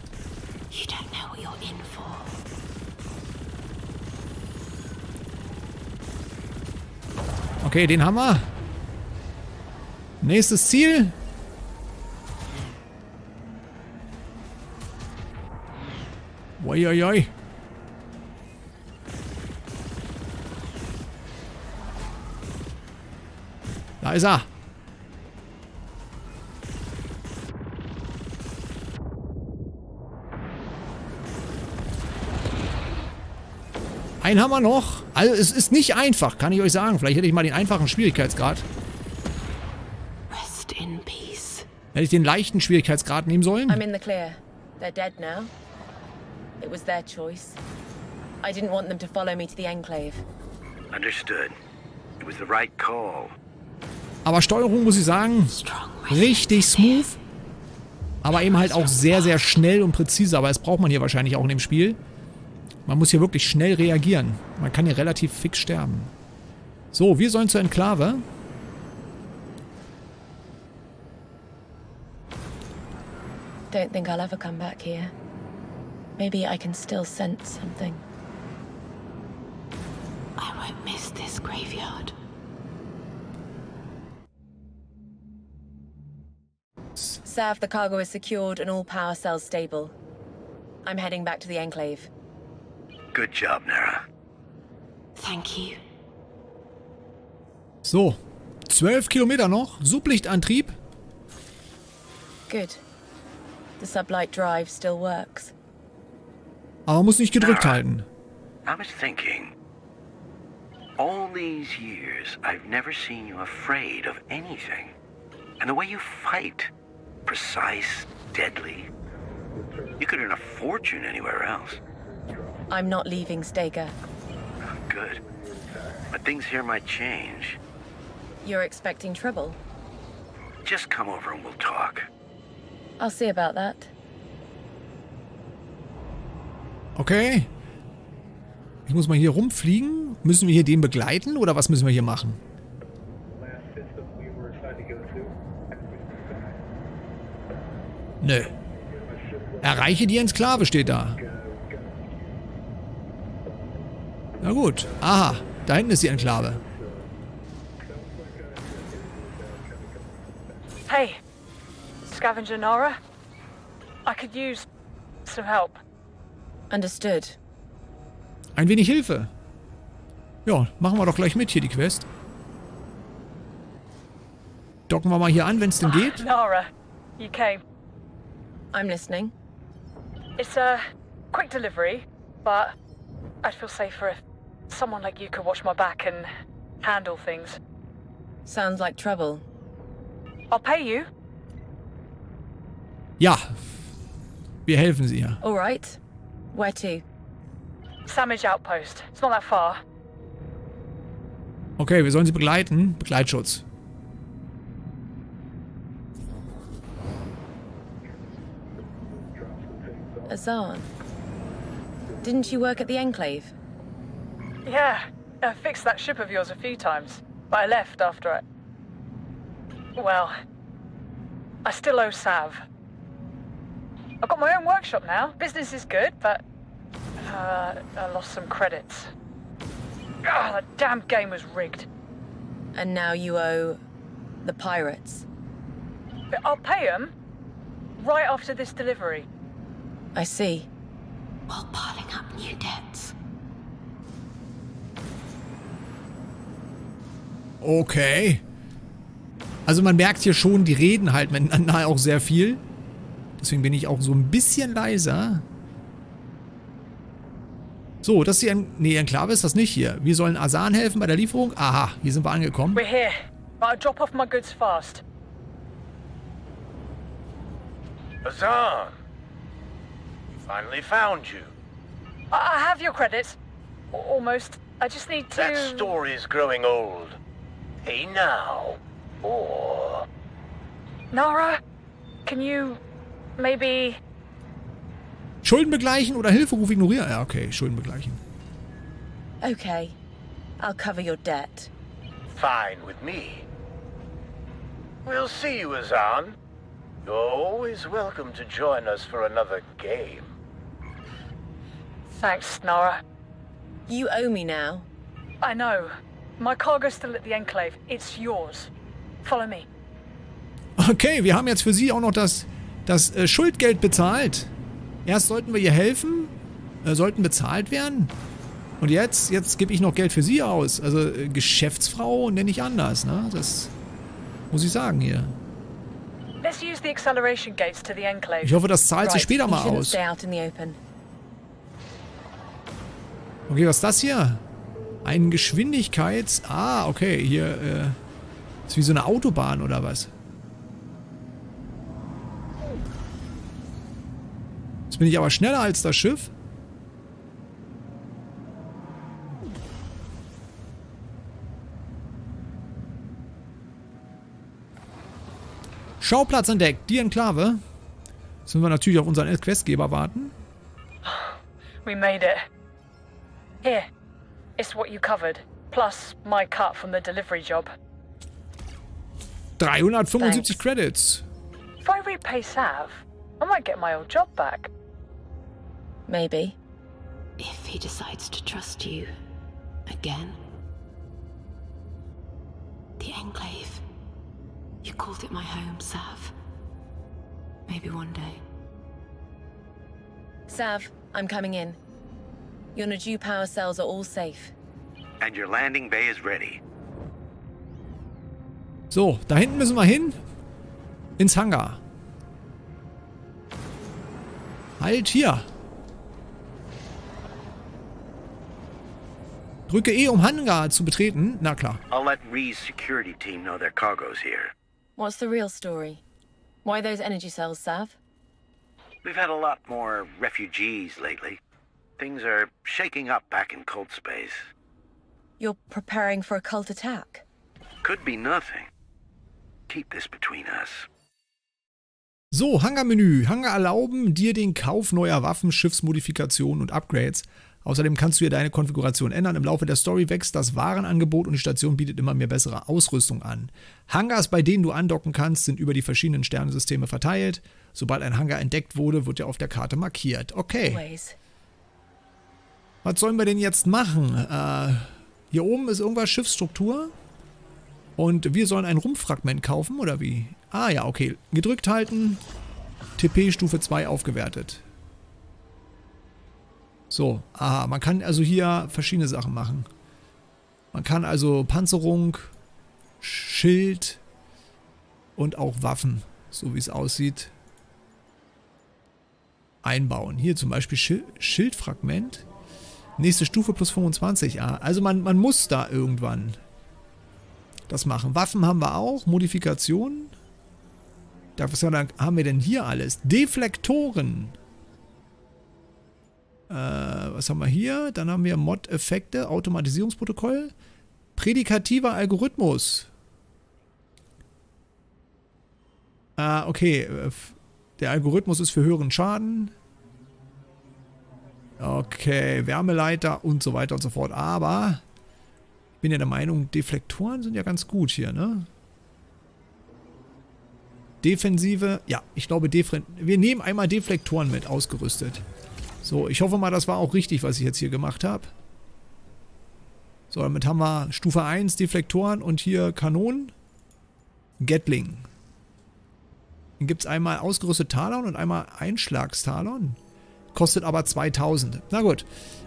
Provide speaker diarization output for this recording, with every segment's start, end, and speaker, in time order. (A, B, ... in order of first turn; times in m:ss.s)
0:00.7-0:02.3 A
0:07.6-0:08.5 B
0:10.2-0:11.1 B
0:16.6-0:17.3 B
0:24.0-0:24.5 B
0:34.2-0:38.7 B
0:40.3-0:41.7 A
0:41.9-0:43.8 B
0:43.7-0:45.5 C
0:46.6-0:47.6 C
0:48.4-0:50.2 C
0:50.9-0:51.5 D
0:52.2-0:53.3 D
0:54.2-0:55.6 B
0:55.5-0:57.1 A
0:56.1-0:57.2 B
0:58.2-1:02.0 B
0:58.3-0:59.4 A
1:02.8-1:06.1 B
1:06.9-1:08.2 B
1:13.7-1:15.1 C
1:16.2-1:18.0 C
1:20.4-1:22.1 A
1:27.2-1:29.9 C
1:30.8-1:32.1 C
1:33.1-1:34.0 D
1:35.2-1:35.8 A
1:37.8-1:40.8 B
1:42.5-1:42.8 C
1:43.8-1:45.5 C
1:46.9-1:48.1 B
1:47.4-1:47.8 D
1:48.6-1:49.5 D
1:51.0-1:54.9 D
1:55.6-1:56.7 D
1:57.2-1:58.9 D
2:00.0-2:01.8 D
2:02.7-2:03.9 C
2:04.6-2:05.2 D
2:06.1-2:07.6 D
2:08.4-2:09.6 C
2:10.6-2:12.1 D
2:13.0-2:13.9 C
2:17.0-2:17.5 B
2:18.9-2:22.4 B
2:28.2-2:28.6 B
2:29.6-2:31.3 B
2:34.4-2:36.6 B
2:40.8-2:41.2 E
2:42.0-2:43.0 E
2:44.0-2:44.6 E
2:45.2-2:45.8 E
2:46.7-2:47.4 C
2:48.6-2:49.3 B
2:50.4-2:52.1 B
2:54.9-2:56.2 B
2:55.8-2:57.6 E
2:58.7-2:59.3 C
3:00.4-3:02.7 E
3:03.4-3:06.3 E
3:06.8-3:07.6 E
3:08.4-3:09.4 C
3:10.5-3:11.1 E
3:13.2-3:13.6 B
3:14.6-3:15.4 B
3:15.4-3:16.0 C
3:16.5-3:17.0 C
3:18.1-3:19.8 E
3:21.8-3:23.6 B
3:30.3-3:30.9 C
3:32.2-3:33.5 C
3:34.6-3:38.4 E
3:40.0-3:40.3 E
3:41.6-3:42.6 E
3:44.2-3:46.4 E
3:47.2-3:49.1 E
3:50.2-3:51.9 E
3:52.7-3:53.8 C
3:54.4-3:55.2 C
3:56.3-3:57.1 E
3:58.0-3:59.2 E
4:00.1-4:00.7 C
4:01.5-4:03.1 A
4:07.6-4:08.4 B
4:09.6-4:12.6 B
4:13.4-4:15.4 B
4:18.0-4:22.8 B
4:22.7-4:25.0 E
4:28.2-4:28.9 F
4:30.4-4:31.5 F
4:32.3-4:33.4 E
4:33.9-4:35.9 E
4:35.3-4:37.2 F
4:37.8-4:40.0 F
4:41.1-4:41.6 E
4:42.2-4:42.8 E
4:43.4-4:44.0 E
4:45.4-4:48.2 B
4:49.4-4:50.0 C
4:50.6-4:51.7 C
4:52.3-4:53.4 F
4:55.0-4:56.4 F
4:57.0-5:00.3 F
5:02.1-5:03.0 E
5:03.9-5:04.9 C
5:05.4-5:08.7 E
5:09.2-5:09.7 E
5:10.8-5:14.5 B
5:15.0-5:16.3 B
5:16.8-5:18.1 B
5:18.8-5:23.7 B
5:24.5-5:25.4 B
5:26.4-5:28.6 E
5:28.4-5:30.0 B
5:29.0-5:30.8 C
5:33.5-5:34.4 B
5:35.0-5:38.0 B
5:38.7-5:40.1 B
5:44.9-5:46.3 B
5:56.0-5:57.6 B
5:58.5-6:00.3 B
6:01.0-6:02.4 E
6:04.6-6:07.7 E
6:09.6-6:11.2 B
6:10.2-6:10.6 C
6:11.8-6:14.7 E
6:16.1-6:16.6 C
6:17.4-6:19.1 A
6:19.8-6:20.4 A
6:23.0-6:23.8 A
6:24.8-6:26.3 A
6:27.7-6:28.4 A
6:30.5-6:31.8 C
6:32.7-6:34.5 C
6:35.2-6:36.6 D
6:38.9-6:40.2 B
6:41.2-6:41.8 B
6:44.8-6:45.5 B
6:49.7-6:51.8 B
6:51.9-6:54.5 D
6:55.0-6:56.0 C
6:56.6-6:58.0 C
6:59.0-7:01.4 D
7:02.0-7:04.5 D
7:05.4-7:07.2 C
7:07.8-7:08.7 D
7:09.7-7:10.9 D
7:12.3-7:30.8 B
7:30.6-7:31.2 C
7:32.8-7:36.9 B
7:38.0-7:42.2 B
7:43.0-7:44.6 B
7:46.9-7:49.7 B
7:50.7-7:52.3 B
7:53.0-7:54.0 B
7:55.2-7:57.3 B
7:59.6-8:02.2 B
8:03.0-8:06.4 B
8:07.7-8:10.1 B
8:11.4-8:14.4 B
8:16.5-8:20.5 B
8:21.2-8:22.9 B
8:26.2-8:29.5 B
8:31.6-8:34.8 B
8:35.8-8:38.5 B
8:41.0-8:45.2 B
8:45.8-8:48.3 B
8:50.1-8:53.3 B
8:54.4-8:55.1 B
8:56.6-8:59.8 B
9:00.3-9:02.0 B